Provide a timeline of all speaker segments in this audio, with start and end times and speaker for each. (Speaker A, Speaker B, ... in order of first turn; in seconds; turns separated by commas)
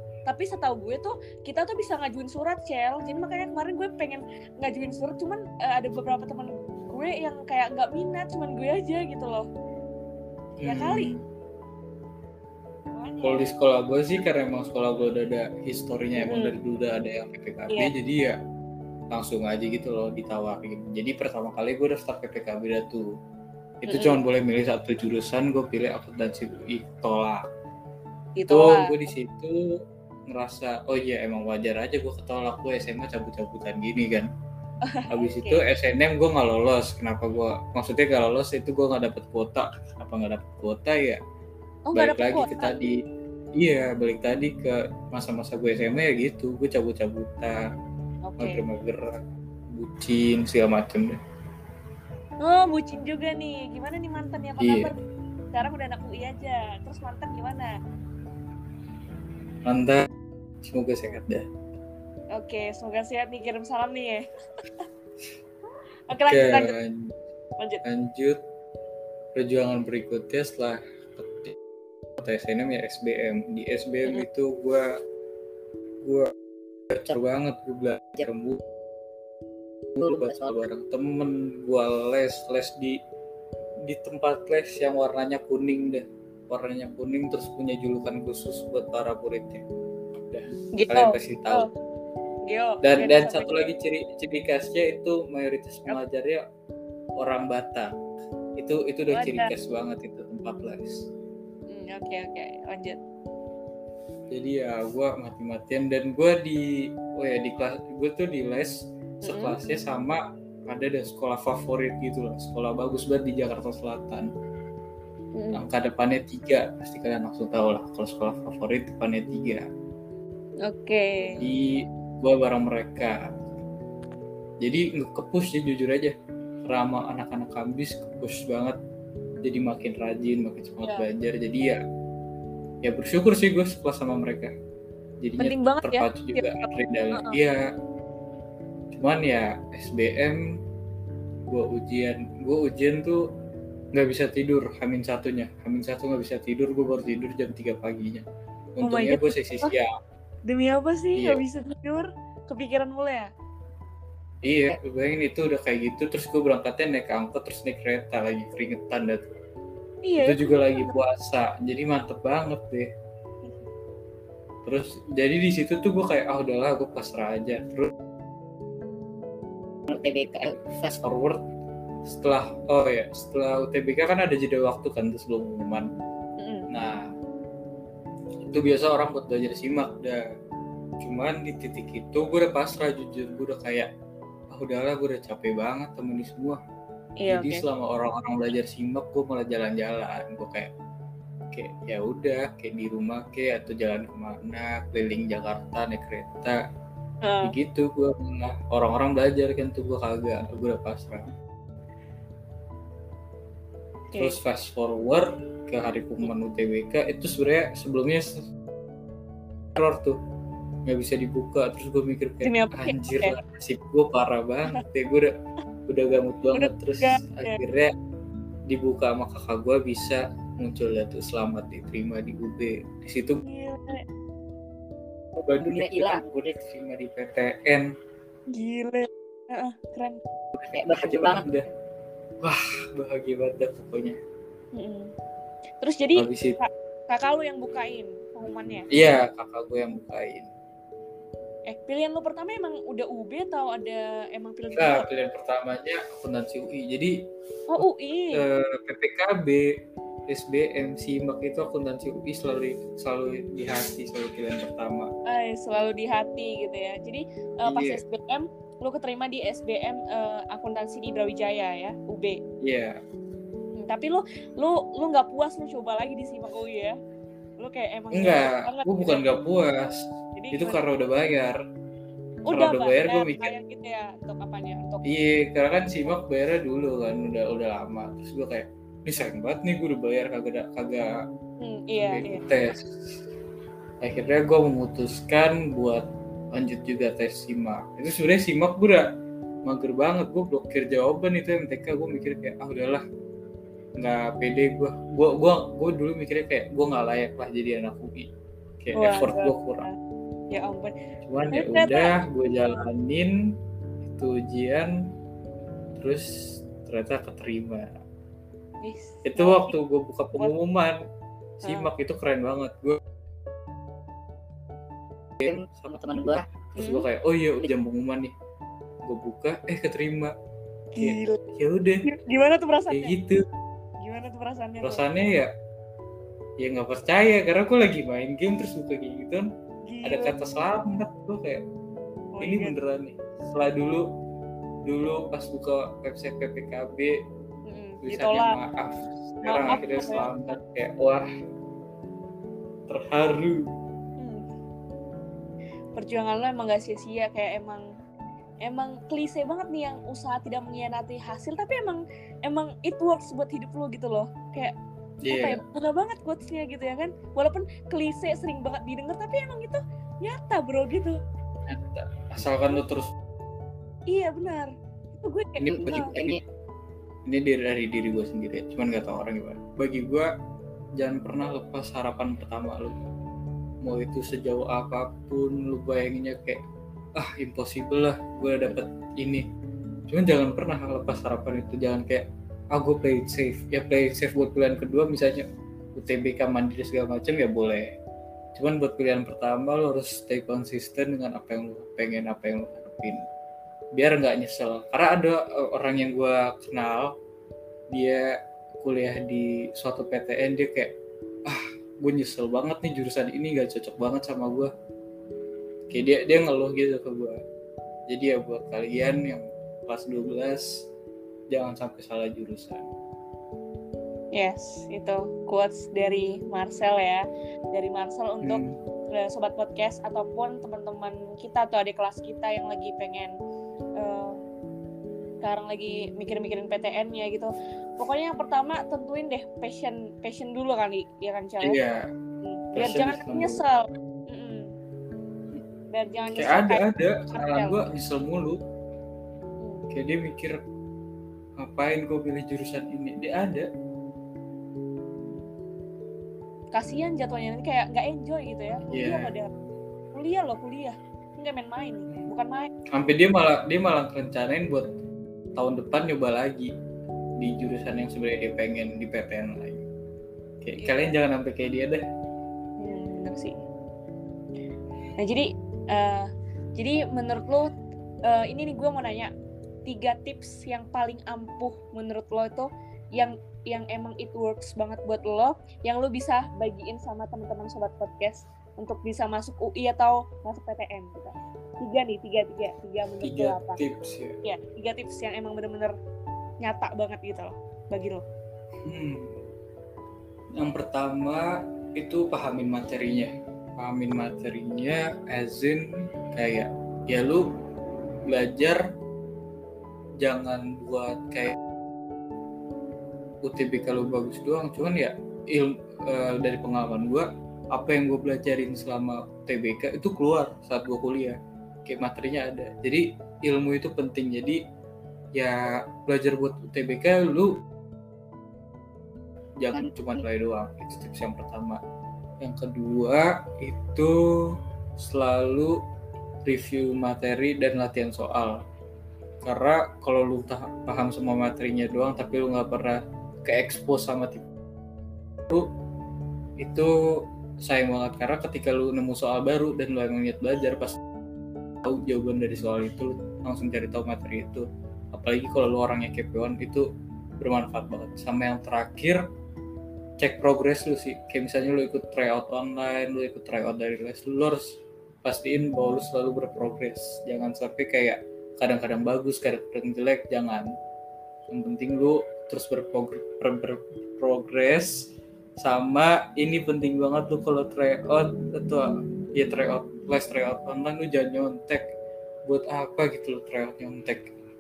Speaker A: 0.3-9.5, Speaker B: 10.6-11.2, Speaker A: 10.6-11.1, Speaker A: 12.9-13.5, Speaker B: 13.2-18.4, Speaker A: 16.2-16.5, Speaker B: 19.1-23.1, Speaker B: 23.8-27.4, Speaker A: 23.9-24.2, Speaker A: 28.4-29.1, Speaker B: 28.4-29.6, Speaker B: 30.3-34.3, Speaker A: 34.9-35.6, Speaker B: 35.1-41.2, Speaker A: 41.9-42.7, Speaker B: 42.0-43.0, Speaker B: 43.6-47.6, Speaker A: 48.3-48.6, Speaker B: 48.4-51.2, Speaker A: 52.4-55.0, Speaker B: 54.6-54.9, Speaker A: 55.5-57.7, Speaker B: 59.6-60.1, Speaker B: 60.6-61.5, Speaker A: 62.4-64.2, Speaker A: 66.1-66.7, Speaker B: 66.3-67.1, Speaker B: 67.8-68.4, Speaker B: 69.3-71.6, Speaker B: 72.2-74.9, Speaker B: 76.0-76.3, Speaker B: 76.9-78.6, Speaker B: 80.0-83.0, Speaker C: 80.0-80.6, Speaker B: 83.9-89.7, Speaker B: 90.3-91.7, Speaker A: 90.8-91.7, Speaker A: 92.5-93.6, Speaker B: 92.8-96.4, Speaker B: 97.2-97.9, Speaker B: 98.6-101.1, Speaker A: 99.1-99.5, Speaker A: 101.7-103.0, Speaker B: 104.3-108.7, Speaker A: 109.2-109.6, Speaker B: 109.2-114.3, Speaker A: 115.4-115.6, Speaker B: 115.5-119.7, Speaker A: 120.7-121.5, Speaker B: 121.4-123.2, Speaker B: 124.6-128.8, Speaker B: 129.4-131.8, Speaker B: 132.8-134.5, Speaker B: 135.2-137.6, Speaker A: 135.4-137.4, Speaker B: 138.9-140.4, Speaker B: 141.5-143.2, Speaker B: 143.9-148.2, Speaker B: 148.8-149.9, Speaker A: 148.8-149.8, Speaker A: 150.5-153.3, Speaker B: 151.2-151.4, Speaker B: 154.4-159.3, Speaker A: 160.1-160.9, Speaker B: 160.2-162.9, Speaker B: 164.7-167.9, Speaker C: 169.9-171.0, Speaker B: 170.9-171.4, Speaker B: 172.1-175.9, Speaker A: 176.4-176.7, Speaker B: 176.7-177.1, Speaker B: 178.4-180.2, Speaker B: 181.0-183.9, Speaker B: 184.5-186.6, Speaker A: 187.2-187.6, Speaker B: 187.3-190.7, Speaker B: 191.5-196.6, Speaker A: 197.2-197.6, Speaker B: 197.4-201.3, Speaker A: 204.1-204.4, Speaker B: 204.1-208.5, Speaker B: 209.8-210.2, Speaker B: 210.9-215.3, Speaker A: 212.4-213.4, Speaker B: 215.9-217.9, Speaker A: 216.5-217.6, Speaker B: 218.7-223.4, Speaker A: 223.4-224.1, Speaker B: 225.4-227.9, Speaker C: 225.6-226.2, Speaker A: 228.5-230.2, Speaker B: 230.6-231.7, Speaker C: 230.7-231.5, Speaker B: 232.4-234.2, Speaker A: 234.8-235.1, Speaker A: 235.8-238.9, Speaker B: 236.2-236.6, Speaker B: 238.9-240.5, Speaker A: 241.7-245.1, Speaker B: 244.8-247.1, Speaker A: 247.7-248.4, Speaker B: 247.8-249.7, Speaker B: 250.3-255.1, Speaker A: 255.3-262.4, Speaker B: 257.7-258.0, Speaker B: 262.6-263.0, Speaker A: 263.8-267.0, Speaker A: 267.6-269.3, Speaker B: 268.1-271.6, Speaker A: 270.4-270.8, Speaker A: 272.5-275.0, Speaker B: 272.5-273.5, Speaker B: 275.1-281.1, Speaker A: 281.6-282.4, Speaker B: 282.1-283.1, Speaker B: 284.0-289.0, Speaker B: 289.7-293.0, Speaker B: 294.0-299.9, Speaker A: 298.9-299.9, Speaker A: 300.5-300.9, Speaker B: 301.2-303.4, Speaker A: 301.5-302.1, Speaker B: 304.1-304.9, Speaker B: 306.0-308.0, Speaker A: 308.8-309.7, Speaker B: 309.2-311.0, Speaker A: 311.6-311.9, Speaker B: 311.6-313.0, Speaker C: 315.4-316.5, Speaker B: 316.8-318.3, Speaker A: 316.8-317.0, Speaker B: 319.0-320.3, Speaker A: 320.9-321.4, Speaker B: 321.0-322.1, Speaker A: 322.1-323.1, Speaker B: 322.9-323.4, Speaker A: 324.0-325.1, Speaker B: 324.8-325.5, Speaker B: 326.6-329.5, Speaker A: 329.9-330.3, Speaker B: 330.0-331.6, Speaker A: 332.3-332.8, Speaker B: 332.4-334.1, Speaker B: 334.9-337.2, Speaker A: 337.7-338.6, Speaker B: 338.0-341.3, Speaker A: 339.5-340.3, Speaker B: 342.9-343.7, Speaker A: 344.2-344.4, Speaker A: 346.0-347.9, Speaker A: 348.6-354.7, Speaker B: 355.2-355.6, Speaker A: 355.3-361.2, Speaker B: 361.7-363.1, Speaker A: 364.1-366.2, Speaker B: 365.6-366.4, Speaker C: 365.7-366.4, Speaker B: 367.3-370.3, Speaker B: 371.0-373.0, Speaker B: 373.8-376.6, Speaker B: 377.2-379.4, Speaker B: 380.1-387.9, Speaker B: 388.6-393.2, Speaker B: 393.9-397.1, Speaker B: 397.9-398.2, Speaker B: 398.8-400.9, Speaker B: 401.5-404.7, Speaker B: 405.9-407.4, Speaker B: 408.1-410.6, Speaker B: 411.5-412.9, Speaker A: 414.4-418.6, Speaker B: 418.4-418.7, Speaker A: 419.1-423.4, Speaker A: 424.0-424.4, Speaker A: 425.4-431.8, Speaker B: 431.6-432.1, Speaker A: 432.4-434.7, Speaker B: 432.8-433.6, Speaker A: 435.9-437.8, Speaker B: 436.4-438.6, Speaker A: 439.6-439.9, Speaker B: 439.9-440.6, Speaker B: 441.6-443.7, Speaker A: 445.3-445.5, Speaker A: 446.8-449.5, Speaker B: 448.9-449.3, Speaker A: 450.1-452.7, Speaker B: 452.9-454.9, Speaker B: 455.6-456.7, Speaker B: 457.4-459.9, Speaker B: 460.6-462.0, Speaker A: 460.8-461.1, Speaker A: 462.8-463.6, Speaker A: 465.2-467.7, Speaker A: 468.3-469.3, Speaker A: 469.9-483.8, Speaker B: 483.2-484.4, Speaker A: 484.4-485.9, Speaker A: 486.6-488.2, Speaker B: 488.9-489.4, Speaker B: 490.6-497.5, Speaker B: 498.2-498.8, Speaker B: 500.2-501.6, Speaker B: 503.4-514.6, Speaker B: 515.4-517.5, Speaker B: 519.6-521.8, Speaker B: 522.4-524.2, Speaker B: 525.0-525.8, Speaker B: 526.5-528.6, Speaker B: 529.4-534.5, Speaker B: 536.6-536.9, Speaker B: 537.6-541.0, Speaker B: 541.8-546.9, Speaker B: 547.4-549.2, Speaker B: 550.2-560.7, Speaker B: 561.5-564.9, Speaker B: 565.6-571.9, Speaker B: 572.5-574.3